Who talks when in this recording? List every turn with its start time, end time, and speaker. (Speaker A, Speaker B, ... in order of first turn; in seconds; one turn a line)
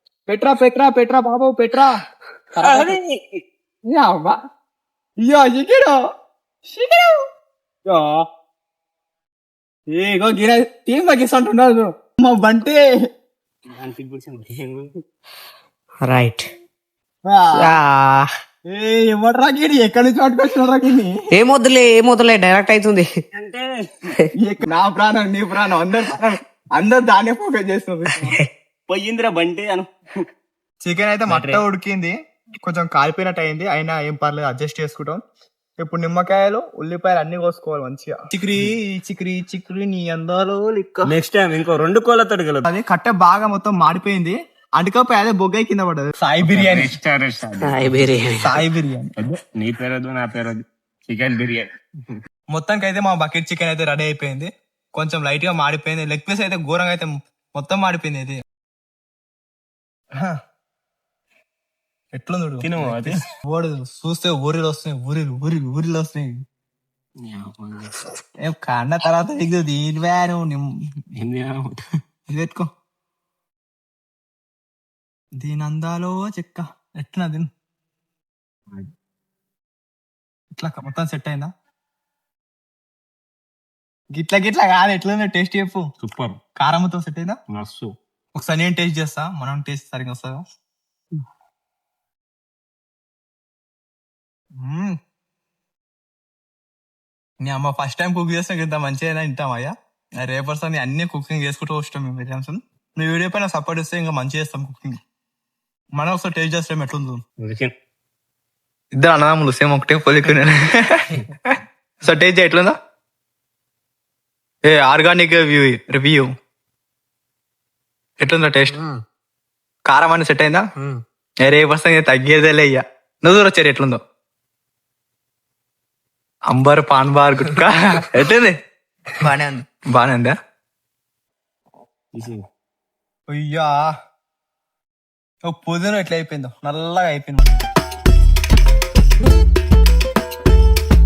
Speaker A: 0.3-1.9
Speaker A: 2.5-3.0
Speaker B: 2.6-3.2
Speaker A: 3.9-4.4
Speaker A: 5.2-6.0
Speaker A: 6.7-7.1
Speaker A: 7.9-8.2
Speaker A: 9.9-12.8
Speaker B: 13.7-14.9
Speaker C: 16.1-16.4
Speaker A: 17.2-17.7
Speaker A: 18.7-21.2
Speaker C: 21.4-23.0
Speaker B: 23.3-24.1
Speaker A: 24.4-28.4
Speaker B: 28.9-29.9
Speaker A: 30.8-35.2
Speaker B: 31.3-31.6
Speaker A: 35.8-41.1
Speaker B: 41.1-42.7
Speaker A: 42.6-46.9
Speaker B: 46.4-48.1
Speaker C: 48.1-48.4
Speaker A: 48.4-49.1
Speaker B: 49.2-52.1
Speaker A: 52.5-58.4
Speaker A: 62.1-66.4
Speaker B: 62.6-63.2
Speaker B: 67.2-68.0
Speaker A: 68.4-70.7
Speaker B: 71.2-71.8
Speaker A: 72.3-72.7
Speaker A: 75.4-77.5
Speaker A: 80.5-81.5
Speaker A: 84.1-85.8
Speaker B: 86.0-86.4
Speaker A: 86.6-87.4
Speaker B: 87.5-88.0
Speaker A: 88.4-90.4
Speaker A: 94.6-95.0
Speaker A: 97.4-104.9
Speaker A: 106.0-107.2
Speaker B: 107.4-107.7
Speaker A: 109.0-112.8
Speaker A: 114.7-116.3
Speaker A: 118.2-118.8
Speaker A: 119.9-120.6
Speaker A: 121.5-124.0
Speaker A: 126.5-128.6
Speaker A: 129.2-130.3
Speaker B: 132.1-132.4
Speaker A: 133.3-133.7
Speaker A: 135.4-137.4